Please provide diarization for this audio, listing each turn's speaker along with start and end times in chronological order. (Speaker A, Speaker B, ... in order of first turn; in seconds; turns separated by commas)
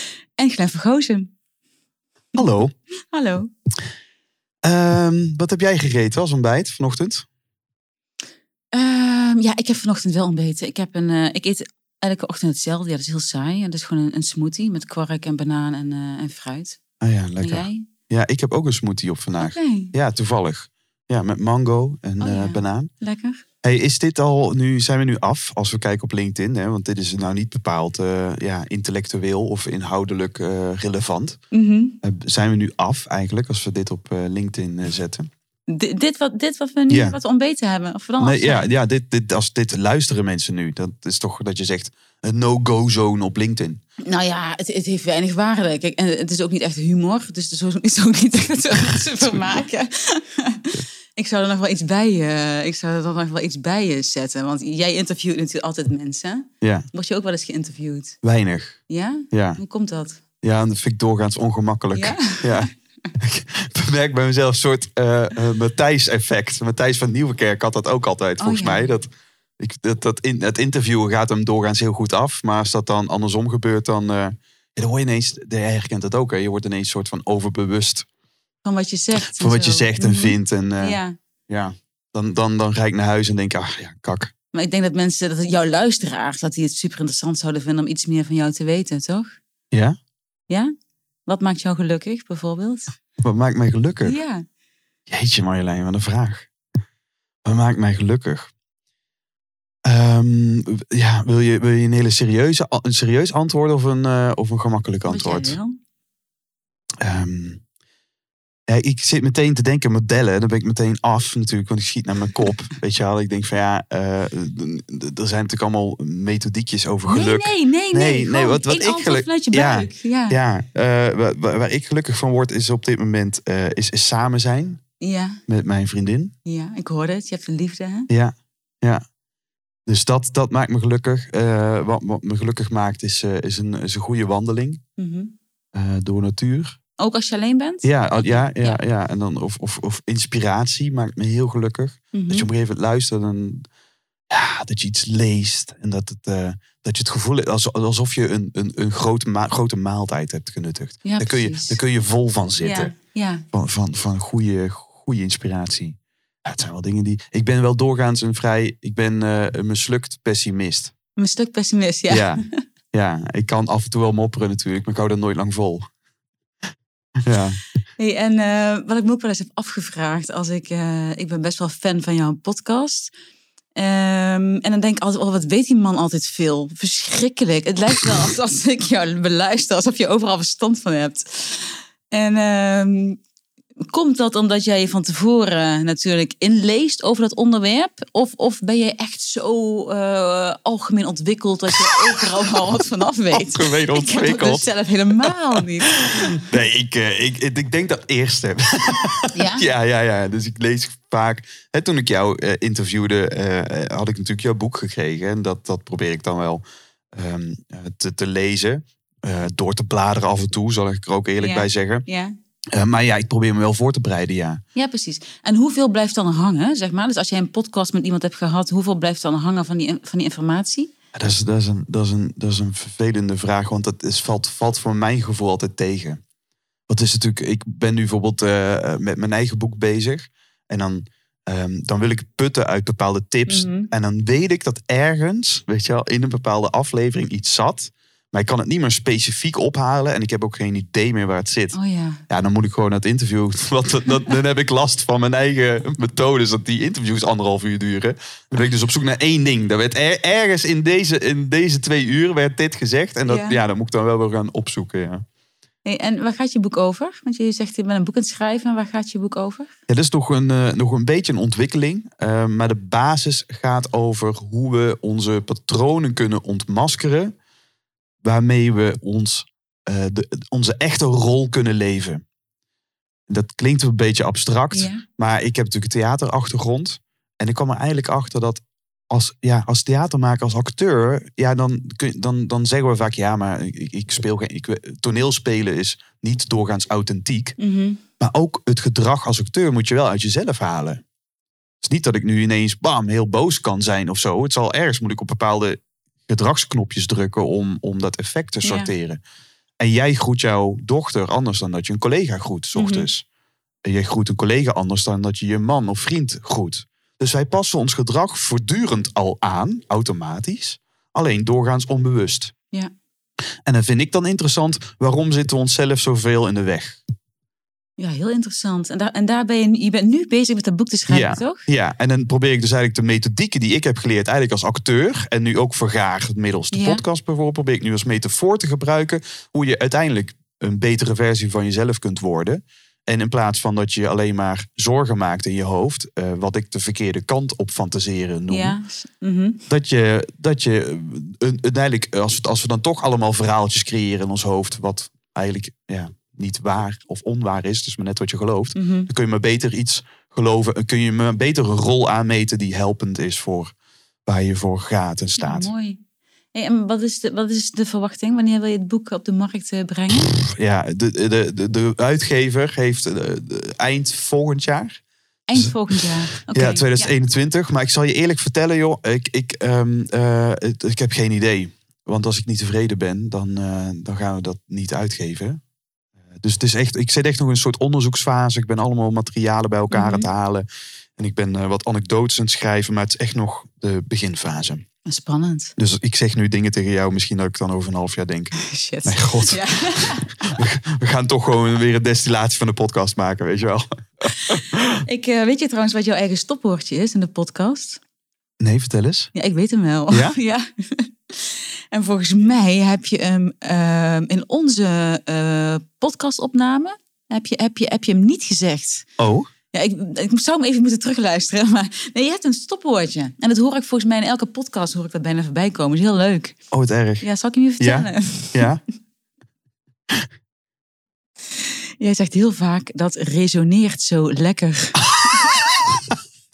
Speaker A: 0.4-1.3, Speaker B: 2.4-2.7, Speaker A: 3.1-3.5, Speaker B: 4.6-7.3, Speaker A: 8.7-16.8, Speaker B: 17.0-22.9, Speaker A: 17.4-17.9, Speaker A: 19.4-19.9, Speaker A: 22.2-23.4, Speaker B: 23.6-31.4, Speaker A: 31.5-32.0, Speaker B: 32.0-35.3, Speaker A: 35.7-38.6, Speaker B: 36.9-37.2, Speaker B: 38.2-43.8, Speaker A: 44.0-58.2, Speaker B: 56.6-56.9, Speaker B: 58.2-58.8, Speaker A: 58.9-60.2, Speaker B: 59.3-59.6, Speaker B: 60.4-69.1, Speaker A: 61.9-62.7, Speaker A: 68.4-68.9, Speaker B: 69.6-78.1, Speaker A: 78.6-81.2, Speaker B: 79.2-84.3, Speaker A: 84.5-89.3, Speaker A: 91.3-92.9, Speaker B: 93.2-94.2, Speaker A: 94.0-94.5, Speaker B: 95.1-96.5, Speaker B: 97.5-98.5, Speaker B: 99.8-105.6, Speaker A: 105.0-105.8, Speaker B: 107.0-107.6, Speaker B: 108.7-124.8, Speaker A: 117.1-120.4, Speaker A: 125.0-125.4, Speaker B: 125.5-126.3, Speaker A: 126.5-128.1, Speaker B: 128.1-129.0, Speaker B: 129.9-134.8, Speaker A: 135.0-135.3, Speaker B: 135.7-136.8, Speaker A: 137.0-138.8, Speaker B: 137.8-143.7, Speaker A: 142.1-142.5, Speaker B: 144.3-152.9, Speaker A: 151.1-151.8, Speaker A: 152.6-153.5, Speaker B: 153.5-160.9, Speaker A: 161.2-162.5, Speaker B: 162.1-165.9, Speaker B: 167.2-167.6, Speaker A: 168.0-173.1, Speaker A: 173.8-183.2, Speaker A: 183.9-196.4, Speaker B: 193.3-194.7, Speaker B: 196.1-212.1, Speaker A: 199.3-199.7, Speaker A: 211.4-212.3, Speaker B: 212.7-214.6, Speaker A: 214.8-220.9, Speaker B: 221.1-226.2, Speaker B: 226.9-241.8, Speaker A: 233.5-233.9, Speaker A: 241.7-242.2, Speaker B: 242.3-255.2, Speaker A: 253.3-253.6, Speaker A: 255.8-259.7, Speaker B: 259.9-267.3, Speaker B: 268.2-272.2, Speaker B: 273.3-287.6, Speaker A: 274.7-275.0, Speaker A: 287.6-288.0, Speaker B: 288.2-291.0, Speaker B: 291.8-299.2, Speaker A: 298.6-298.9, Speaker B: 299.8-303.2, Speaker A: 302.8-303.1, Speaker B: 303.9-312.5, Speaker B: 313.7-317.0, Speaker A: 318.0-321.7, Speaker B: 321.1-338.8, Speaker A: 326.7-327.0, Speaker A: 338.5-339.6, Speaker B: 339.7-353.7, Speaker A: 348.8-349.1, Speaker B: 354.3-355.7, Speaker A: 355.4-356.0, Speaker A: 356.5-360.3, Speaker B: 360.2-365.0, Speaker A: 365.5-367.1, Speaker B: 366.5-375.6, Speaker B: 376.4-380.7, Speaker A: 379.9-380.3, Speaker B: 381.2-384.8, Speaker A: 385.1-385.8, Speaker B: 385.8-389.6, Speaker A: 388.6-390.6, Speaker B: 390.5-395.0, Speaker A: 395.1-398.0, Speaker B: 398.6-399.3, Speaker A: 399.4-409.1, Speaker B: 400.1-400.4, Speaker B: 409.2-409.5, Speaker A: 409.7-416.6, Speaker B: 416.7-417.2, Speaker A: 417.2-418.7, Speaker B: 417.8-418.8, Speaker A: 421.5-425.6, Speaker B: 425.0-426.1